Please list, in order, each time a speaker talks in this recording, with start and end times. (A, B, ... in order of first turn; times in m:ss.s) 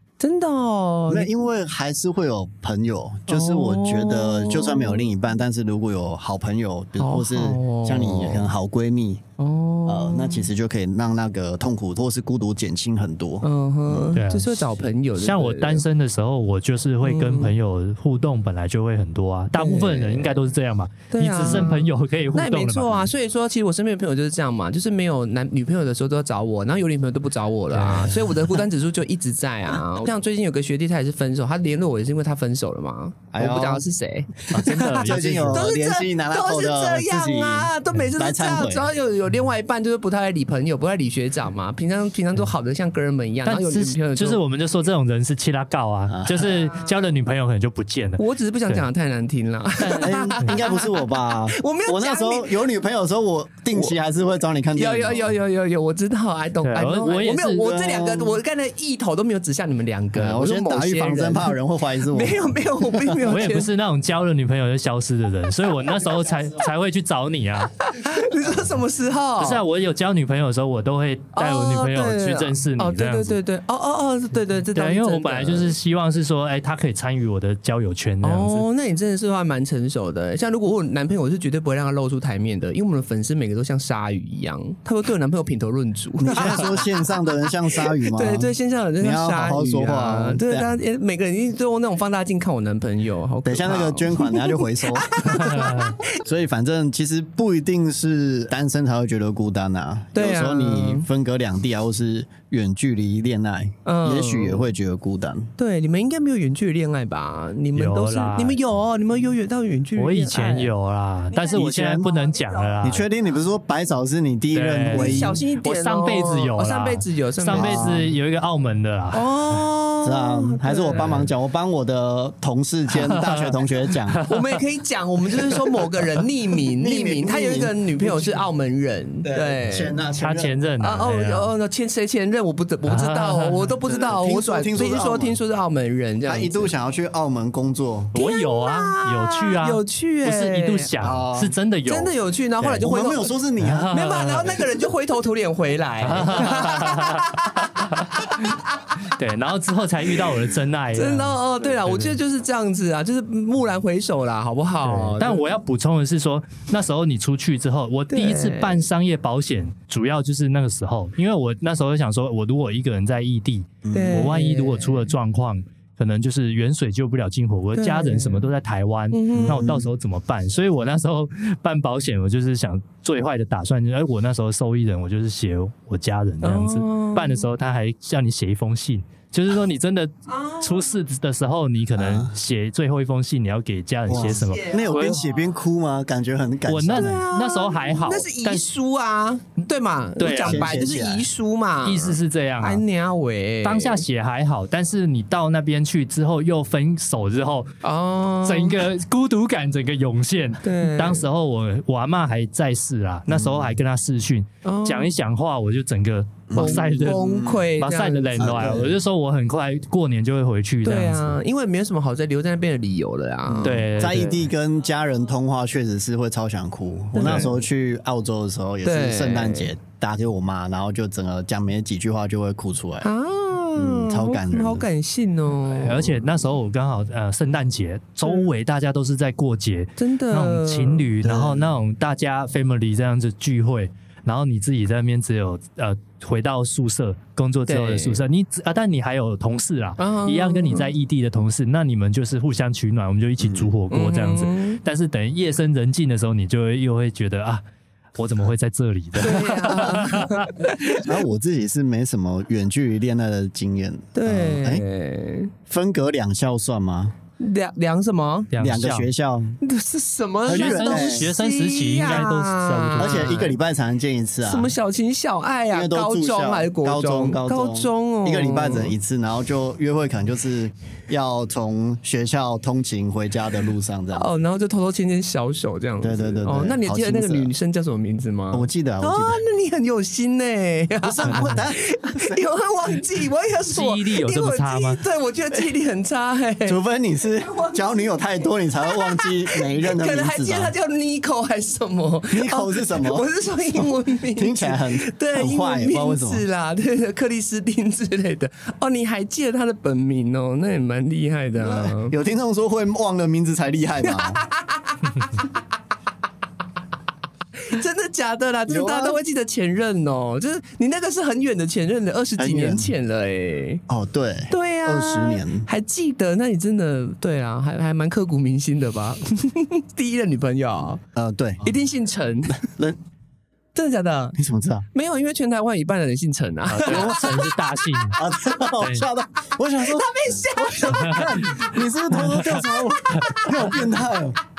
0:00.2-0:01.3 A
0:01.1-0:09.2 B
0:03.3-0:05.1 A
0:07.0-0:08.5 A
0:09.4-0:10.5 A
0:09.9-0:14.1 B
0:13.4-0:15.8 A
0:14.1-0:23.1 C
0:17.0-0:17.5 A
0:19.5-0:20.4 A
0:21.1-0:44.4 A
0:27.7-0:28.1 C
0:33.3-0:33.8 B
0:34.5-0:35.6 C
0:34.7-0:38.9 B
0:43.4-0:48.9 C
0:46.1-0:46.5 B
0:48.2-0:52.6 A
0:49.8-0:50.6 C
0:49.9-0:55.3 B
0:54.8-1:03.7 A
0:56.6-0:57.7 C
0:57.6-0:58.4 B
1:00.1-1:03.2 B
1:03.2-1:07.8 C
1:07.8-1:09.6 A
1:09.4-1:13.4 C
1:11.3-1:15.7 A
1:14.7-1:18.6 C
1:18.2-1:36.2 A
1:26.2-1:30.8 B
1:33.4-1:45.5 B
1:35.6-1:35.9 C
1:40.1-1:41.0 A
1:43.8-1:44.7 A
1:45.6-1:50.7 A
1:47.7-1:48.6 C
1:50.0-1:53.0 C
1:51.3-1:52.9 A
1:51.5-1:52.1 B
1:52.8-1:55.4 B
1:54.5-1:59.6 C
1:54.9-1:58.0 A
1:57.5-1:58.1 B
1:59.1-2:01.2 A
2:00.0-2:04.2 B
2:00.9-2:01.2 C
2:03.0-2:03.5 C
2:04.1-2:04.6 C
2:04.2-2:10.0 A
2:06.8-2:08.5 B
2:09.2-2:10.5 B
2:10.2-2:11.5 C
2:10.8-2:16.7 A
2:12.8-2:13.7 C
2:13.8-2:15.4 B
2:16.2-2:18.1 B
2:18.1-2:22.9 C
2:18.1-2:20.9 A
2:21.0-2:21.5 B
2:21.8-2:23.4 A
2:22.8-2:24.0 B
2:23.6-2:24.5 C
2:23.9-2:28.9 A
2:26.0-2:28.4 C
2:29.0-2:32.2 C
2:30.9-2:35.5 A
2:34.8-3:05.2 C
2:38.1-2:38.8 A
2:43.8-2:44.3 B
2:43.9-2:45.0 A
2:47.8-2:48.4 A
2:49.1-2:49.8 A
2:49.4-2:49.9 B
2:56.4-2:57.4 A
3:00.3-3:00.9 A
3:02.0-3:02.3 B
3:04.1-3:07.2 B
3:04.1-3:05.4 A
3:06.7-3:08.6 C
3:06.9-3:14.0 A
3:10.2-3:10.8 C
3:10.4-3:11.2 B
3:11.8-3:12.8 C
3:13.6-3:17.7 C
3:17.8-3:18.8 A
3:18.4-3:27.3 C
3:20.6-3:21.3 A
3:23.3-3:23.8 B
3:24.6-3:25.1 A
3:26.5-3:27.7 B
3:26.5-3:28.9 A
3:27.8-3:31.4 C
3:28.4-3:29.0 B
3:30.8-3:33.9 A
3:33.5-3:43.1 B
3:33.6-3:34.4 C
3:37.1-3:37.6 A
3:38.8-3:39.7 A
3:43.0-3:46.1 A
3:43.7-3:44.8 B
3:45.7-4:07.6 C
3:50.0-3:51.1 A
3:51.2-3:51.7 B
3:57.7-3:58.2 A
4:00.0-4:00.9 A
4:03.4-4:03.7 B
4:03.9-4:04.8 A
4:08.2-4:10.5 C
4:09.2-4:11.1 A
4:11.0-4:14.8 B
4:14.1-4:15.5 A
4:15.7-4:17.1 B
4:17.4-4:18.5 A
4:18.5-4:19.1 C
4:18.6-4:19.6 B
4:19.6-4:23.5 A
4:20.4-4:21.3 B
4:20.5-4:23.4 C
4:23.0-4:24.7 B
4:24.4-4:28.9 A
4:25.7-4:34.3 B
4:34.1-4:46.8 A
4:36.0-4:37.5 B
4:38.5-4:39.4 B
4:41.0-4:42.4 B
4:41.3-4:41.5 C
4:43.7-4:45.0 C
4:46.6-4:50.7 B
4:48.8-5:02.1 A
4:52.3-4:56.4 B
5:01.6-5:04.4 B
5:04.0-5:05.4 A
5:07.6-5:13.8 A
5:08.7-5:09.2 B
5:12.4-5:12.9 B
5:13.9-5:15.7 B
5:14.5-5:21.0 A
5:21.1-5:21.7 B
5:21.6-5:22.6 A
5:22.6-5:23.0 B
5:23.7-5:24.4 A
5:24.4-5:24.8 B
5:24.9-5:28.2 A
5:26.7-5:28.2 C
5:26.8-5:27.4 B
5:28.2-5:34.4 B
5:28.8-5:29.1 C
5:29.8-5:31.7 A
5:30.9-5:32.6 C
5:32.4-5:33.9 A